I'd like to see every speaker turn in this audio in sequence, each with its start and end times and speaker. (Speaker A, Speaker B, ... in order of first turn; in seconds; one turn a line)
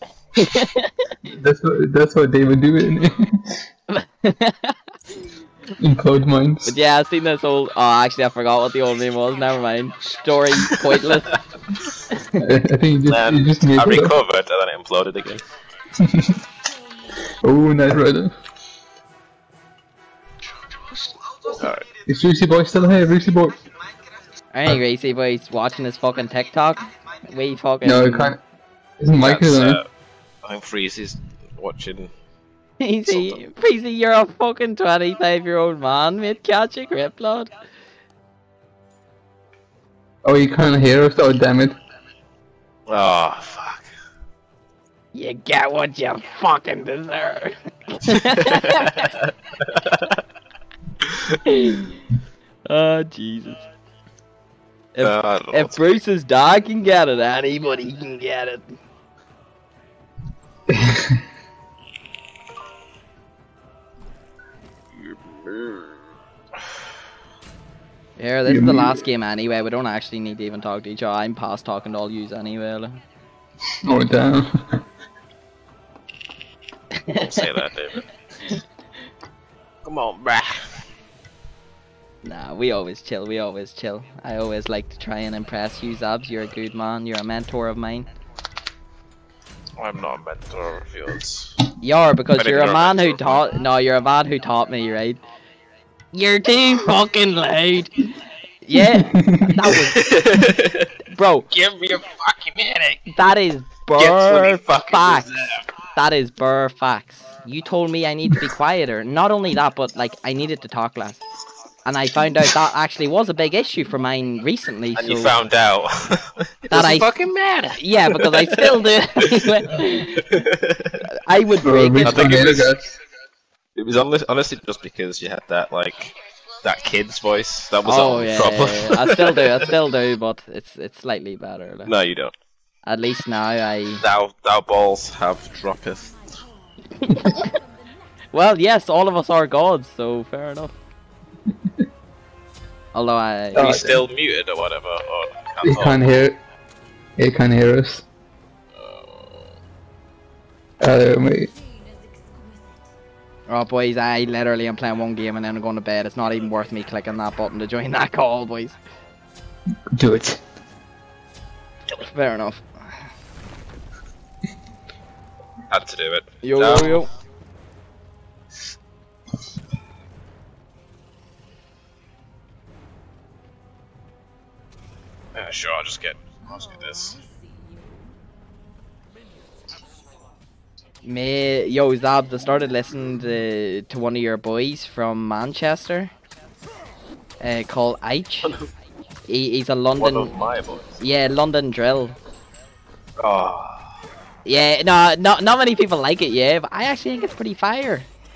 Speaker A: 0.3-1.1
Speaker B: 1.3-3.6
Speaker A: 3.9-4.8
Speaker B: 5.8-6.7
Speaker A: 6.6-11.4
Speaker A: 12.1-12.4
Speaker B: 12.4-14.2
Speaker C: 13.1-15.4
Speaker B: 15.9-16.4
Speaker B: 17.3-18.4
Speaker C: 21.5-21.9
Speaker B: 22.1-23.6
Speaker A: 24.5-28.4
Speaker B: 27.8-28.4
Speaker B: 29.0-29.8
Speaker C: 29.1-29.9
Speaker C: 30.4-32.1
Speaker A: 32.8-37.5
Speaker C: 33.1-33.4
Speaker B: 40.2-41.8
Speaker C: 42.9-43.9
Speaker A: 45.1-49.1
Speaker C: 48.5-50.1
Speaker A: 51.4-51.9
Speaker A: 52.6-53.6
Speaker A: 54.9-58.7
Speaker C: 55.0-56.0
Speaker B: 60.7-61.2
Speaker C: 65.3-65.9
Speaker A: 68.2-73.0
Speaker B: 68.5-69.0
Speaker B: 73.8-74.8
Speaker A: 77.0-77.4
Speaker C: 77.1-78.0
Speaker C: 79.8-80.8
Speaker A: 82.2-88.1
Speaker C: 89.8-91.5
Speaker A: 91.8-95.2
Speaker C: 92.4-93.4
Speaker A: 96.1-98.1
Speaker A: 98.6-100.1
Speaker B: 98.8-99.6
Speaker C: 100.0-100.9
Speaker A: 101.1-101.5
Speaker C: 101.5-103.1
Speaker A: 103.1-111.2
Speaker C: 104.0-105.7
Speaker A: 111.8-115.3
Speaker C: 115.0-119.5
Speaker A: 116.7-117.1
Speaker A: 117.8-120.2
Speaker C: 120.2-121.0
Speaker A: 121.1-122.4
Speaker B: 121.6-122.9
Speaker C: 122.0-122.8
Speaker C: 123.8-129.5
Speaker A: 127.8-131.9
Speaker C: 131.8-132.3
Speaker A: 132.8-134.0
Speaker C: 134.0-136.3
Speaker A: 136.9-137.6
Speaker A: 138.3-140.8
Speaker A: 142.9-143.8
Speaker B: 143.5-144.0
Speaker C: 143.6-146.0
Speaker B: 145.6-146.4
Speaker B: 147.2-148.1
Speaker C: 148.7-149.5
Speaker B: 150.8-151.5
Speaker A: 153.5-158.8
Speaker B: 159.9-160.4
Speaker A: 162.0-163.0
Speaker C: 165.7-167.0
Speaker A: 166.4-167.1
Speaker C: 175.3-177.2
Speaker A: 181.0-186.1
Speaker A: 187.4-188.5
Speaker A: 189.3-190.3
Speaker C: 190.0-191.0
Speaker A: 191.0-192.2
Speaker C: 193.2-193.9
Speaker A: 194.4-198.1